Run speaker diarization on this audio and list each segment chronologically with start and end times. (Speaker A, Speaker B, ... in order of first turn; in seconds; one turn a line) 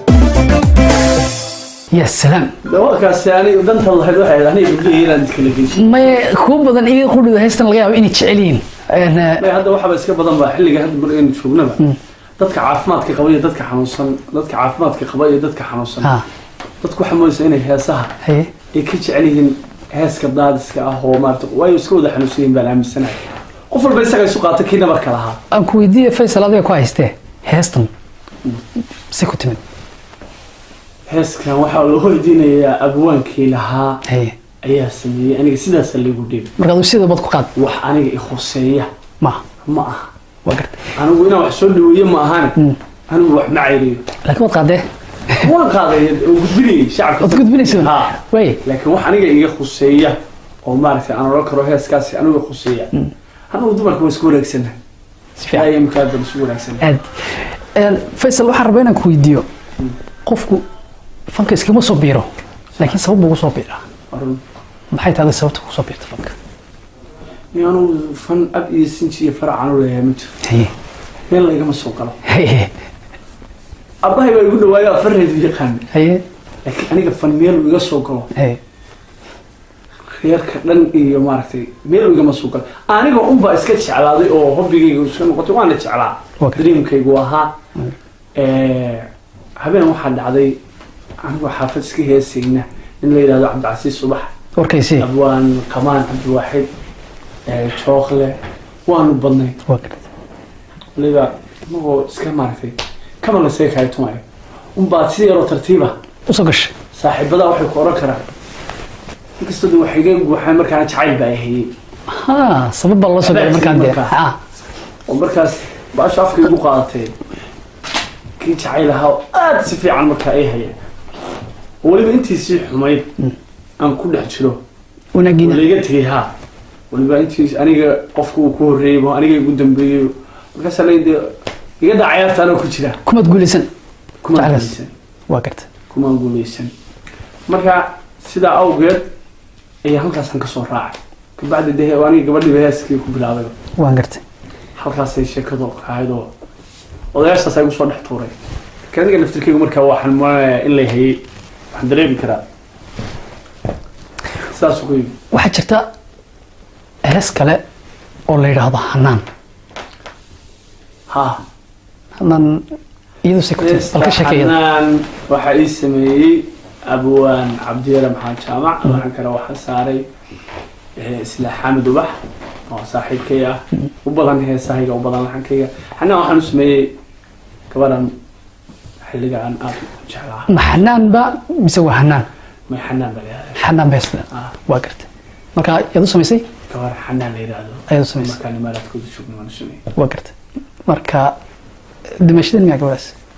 Speaker A: 1.9-2.5
Speaker B: 2.6-5.9
Speaker A: 5.7-9.4
Speaker B: 9.4-11.8
Speaker B: 12.4-16.2
Speaker B: 16.8-18.1
Speaker A: 18.2-18.6
Speaker B: 18.7-25.4
Speaker A: 25.5-27.9
Speaker A: 29.1-29.6
Speaker B: 31.1-34.0
Speaker A: 34.1-34.4
Speaker B: 34.6-36.5
Speaker A: 36.6-37.5
Speaker B: 37.6-38.9
Speaker B: 39.6-40.1
Speaker A: 40.5-40.9
Speaker B: 41.0-42.6
Speaker B: 43.1-44.0
Speaker A: 44.2-45.5
Speaker B: 45.4-53.0
Speaker A: 47.2-48.6
Speaker B: 53.5-54.8
Speaker A: 55.4-55.7
Speaker B: 55.5-56.9
Speaker A: 56.8-59.5
Speaker A: 60.2-60.6
Speaker A: 61.3-63.8
Speaker B: 64.1-64.4
Speaker A: 64.9-66.3
Speaker B: 67.5-70.4
Speaker A: 70.4-70.7
Speaker B: 71.3-72.2
Speaker A: 72.2-72.7
Speaker B: 74.0-75.9
Speaker A: 75.9-76.2
Speaker B: 76.7-78.3
Speaker A: 78.3-78.6
Speaker B: 80.2-87.5
Speaker B: 88.4-89.1
Speaker B: 89.6-90.6
Speaker B: 91.2-94.3
Speaker A: 94.6-95.1
Speaker B: 95.0-96.7
Speaker B: 97.5-99.6
Speaker A: 99.7-100.1
Speaker B: 101.0-104.2
Speaker B: 104.8-106.0
Speaker A: 106.3-106.7
Speaker B: 106.9-108.2
Speaker B: 109.4-111.7
Speaker A: 112.1-114.4
Speaker B: 113.2-114.2
Speaker B: 115.1-117.1
Speaker B: 118.4-120.8
Speaker B: 121.8-123.1
Speaker B: 123.8-124.6
Speaker A: 125.2-125.7
Speaker B: 125.4-126.3
Speaker B: 126.9-133.0
Speaker A: 133.1-133.7
Speaker B: 134.2-134.9
Speaker A: 134.3-134.7
Speaker A: 135.3-135.7
Speaker B: 135.9-136.7
Speaker B: 137.5-139.1
Speaker B: 139.8-143.5
Speaker A: 143.8-144.2
Speaker B: 144.8-146.3
Speaker B: 147.1-148.3
Speaker B: 148.9-152.4
Speaker B: 154.5-155.1
Speaker A: 155.3-155.9
Speaker A: 157.0-157.6
Speaker A: 158.3-159.2
Speaker B: 161.1-161.4
Speaker A: 162.2-162.6
Speaker A: 163.2-164.6
Speaker B: 163.6-170.1
Speaker B: 171.0-172.2
Speaker B: 172.7-177.0
Speaker B: 177.7-178.1
Speaker B: 179.1-180.5
Speaker A: 180.5-182.3
Speaker B: 182.7-183.6
Speaker A: 183.6-186.5
Speaker B: 186.7-189.8
Speaker A: 187.9-188.4
Speaker A: 189.9-191.4
Speaker A: 192.2-193.1